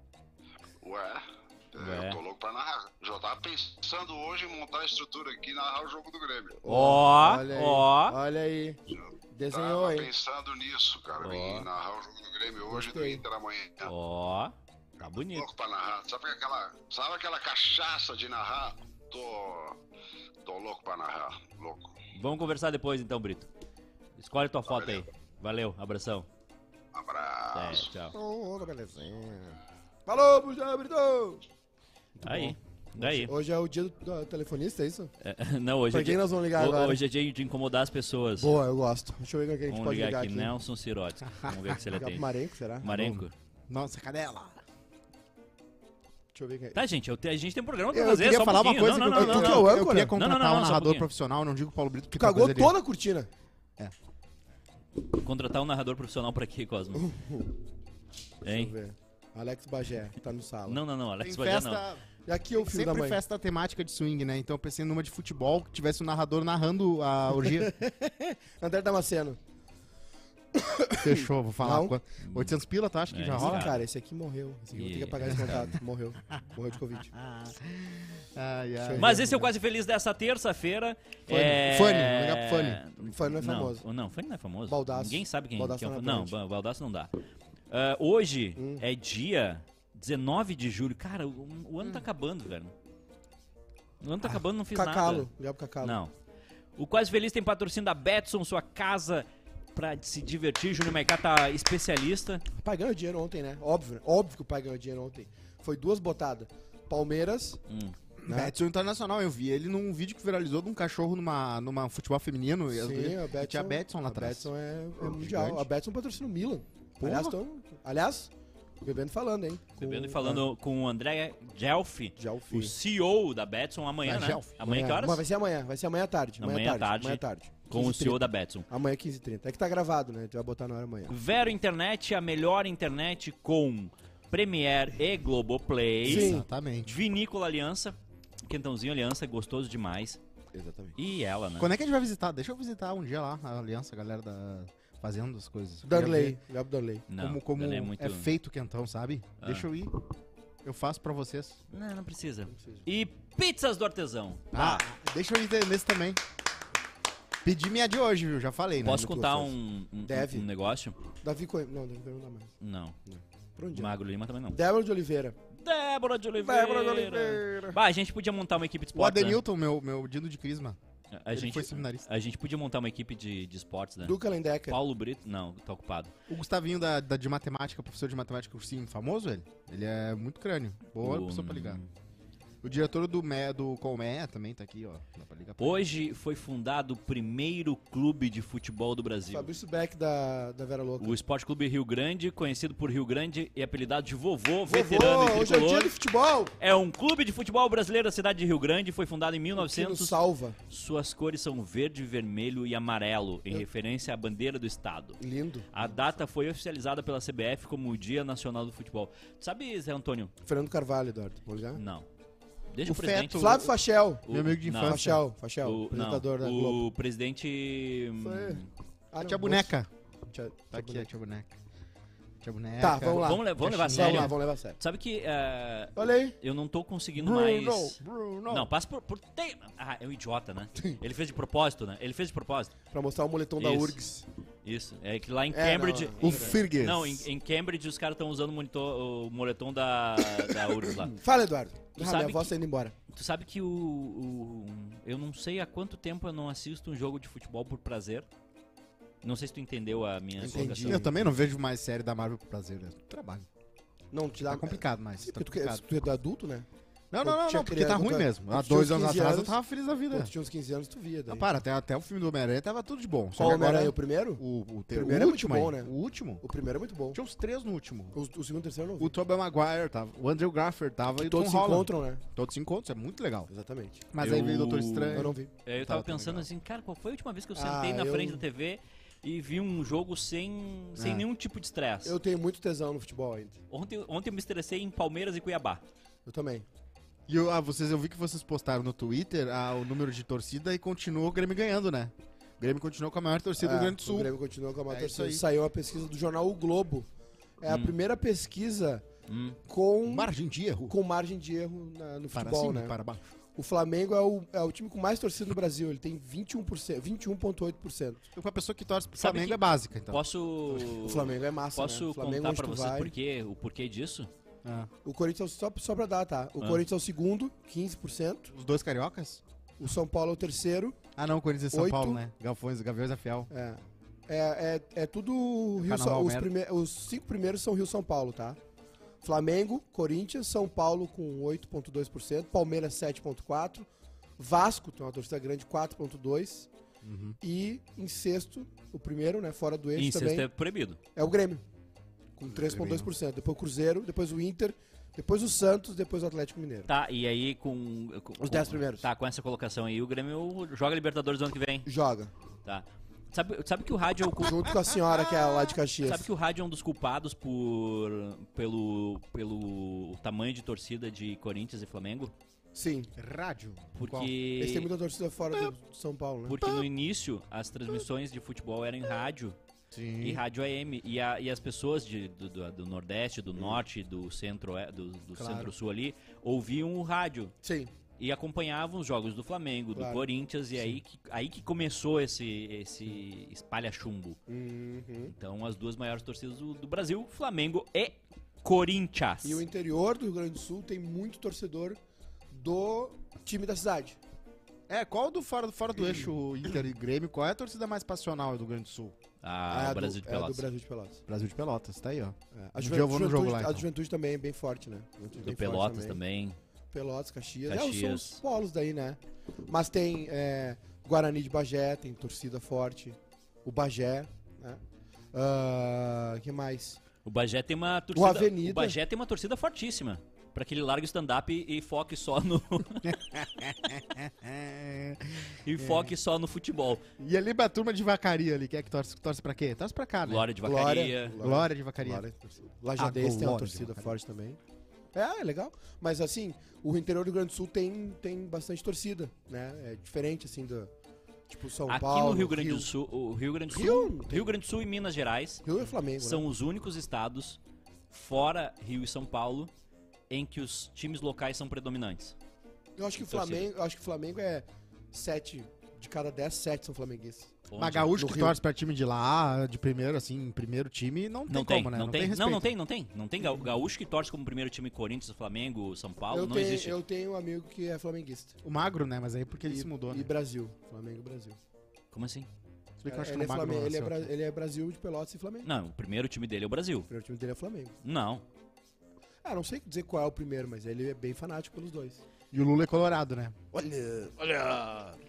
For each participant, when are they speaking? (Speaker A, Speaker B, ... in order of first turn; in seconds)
Speaker A: 0.8-6.6, 8.9-13.9, 15.2-19.8, 20.4-22.0, 24.7-25.1, 26.9-27.9
Speaker B: 1.8-2.2, 6.7-8.2, 11.2-11.7, 13.8-15.5, 22.1-23.5, 24.2-26.3, 27.5-28.2, 32.2-33.3, 35.2-38.5, 39.7-42.3, 42.8-43.3, 46.7-51.1, 55.1-57.1, 58.4-58.7, 60.7-61.9, 72.2-72.5, 73.1-73.8, 74.7-75.8, 79.0-87.1, 87.7-92.7, 94.0-95.3, 95.8-96.1, 96.8-102.5, 107.7-108.0, 119.8-125.2, 126.4-128.7, 131.1-140.2, 141.0-141.7, 147.1-148.3, 149.4-149.7, 151.7-154.8, 158.8-161.0, 162.6-163.0, 163.7-164.6, 165.5-169.4, 171.1-174.2, 174.7-176.1, 181.0-181.9, 185.6-189.5, 191.0-195.9, 196.6-200.2, 200.7-205.2, 205.7-210.3, 211.8-212.1, 212.7-213.7, 214.2-218.7, 223.0-232.7, 233.6-234.0, 234.6-241.2, 241.9-242.5, 243.1-248.3, 249.2-251.1, 274.2-282.2, 283.7-285.8, 297.7-298.0, 299.3-299.6, 309.2-314.3, 339.9-341.0, 346.9-351.9, 352.6-354.7, 356.0-362.3, 363.9-364.9, 366.5-369.6, 370.2-377.5, 378.2-384.4, 385.3-389.6, 399.4-400.7, 405.4-406.6, 407.7-408.4, 417.2-423.2, 425.6-427.0, 430.2-431.4, 441.9-445.6, 446.2-447.6, 448.1-449.7, 450.3-452.4, 453.2-453.7, 457.7-458.2, 461.5-467.0, 472.1-472.5, 475.6-477.1, 478.0-478.4
Speaker C: 6.6-8.8, 9.3-10.1, 12.7-13.2, 28.1-31.4, 32.2-35.1, 35.9-37.0, 38.4-40.5, 41.9-42.9, 46.3-46.8, 49.1-50.2, 52.1-53.3, 57.0-57.5, 58.4-60.8, 62.3-63.2, 67.4-67.8, 68.6-69.4, 70.5-72.0, 73.3-77.1, 78.8-79.5, 83.0-83.8, 84.7-86.3, 88.6-88.8, 94.2-96.0, 102.6-107.6, 108.3-108.5, 112.7-118.3, 118.8-120.5, 122.2-122.7, 124.6-131.1, 136.0-136.4, 140.5-141.0, 145.8-147.1, 152.5-152.8, 158.8-160.5, 161.2-162.6, 163.1-163.9, 164.5-165.4, 166.4-167.5, 174.0-174.8, 189.3-191.2, 194.7-196.6, 199.6-200.6, 205.2-205.9, 210.4-211.8, 213.4-216.8, 218.2-219.7, 220.3-221.1, 222.8-224.8, 226.0-226.4, 232.9-234.2, 235.5-236.6, 240.9-242.9, 250.4-251.2, 254.1-256.7, 257.2-259.6, 260.1-261.5, 263.4-264.4, 264.9-267.2, 268.1-269.2, 271.1-272.2, 273.5-274.0, 275.1-275.5, 277.6-278.4, 282.1-283.6, 286.3-286.7, 293.6-297.1, 297.6-299.1, 299.7-300.3, 300.9-302.9, 303.6-308.2, 310.8-313.1, 315.0-318.5, 319.8-321.0, 321.7-322.2, 323.5-328.6, 329.2-336.7, 337.4-340.5, 341.1-341.6, 342.4-346.9, 348.4-349.1, 351.9-352.3, 354.4-356.3, 362.7-363.1, 364.6-366.6, 375.4-375.7, 377.6-377.9, 379.9-380.3, 384.5-385.3, 389.4-392.0, 392.5-394.2, 399.7-401.2, 402.5-406.2, 406.9-414.8, 415.3-417.0, 418.1-419.0, 430.6-434.6, 435.1-440.9, 441.5-442.9, 443.7-444.5, 445.6-446.4, 453.0-457.6, 458.1-458.6, 466.3-468.6, 469.7-471.6, 473.1-475.7, 477.1-477.9, 479.4-482.2, 483.7-485.1
Speaker D: 42.8-44.6, 47.9-52.8, 61.2-62.0, 62.5-68.1, 71.0-73.7, 75.3-75.6, 77.2-79.2, 81.3-82.8, 108.2-115.7, 117.0-117.4, 124.1-124.5, 136.0-137.0, 141.6-146.4, 147.2-149.9, 150.6-151.6, 154.5-156.2, 157.4-159.1, 167.3-167.8, 168.9-170.8, 171.3-172.1, 176.3-181.8, 182.6-185.8, 212.8-213.7, 214.3-215.2, 219.2-219.9, 220.7-221.6, 222.4-224.3, 227.2-228.7, 236.2-237.3, 250.5-253.5, 254.4-255.8, 257.1-260.3, 261.3-266.4, 267.1-268.2, 269.0-273.5, 274.1-276.5, 281.0-281.3, 287.3-294.3, 294.9-295.4, 300.1-300.9, 302.3-303.2, 308.4-310.2, 314.6-314.9, 318.5-319.4, 321.2-323.5, 325.8-326.5, 337.0-337.4, 342.5-343.1, 355.4-355.7, 363.2-364.3, 369.9-370.4, 394.9-399.1, 401.3-403.9, 423.0-426.1, 427.2-430.5, 431.4-432.2, 433.0-434.1, 457.8-462.7, 468.6-470.3, 473.0-474.3, 482.5-483.6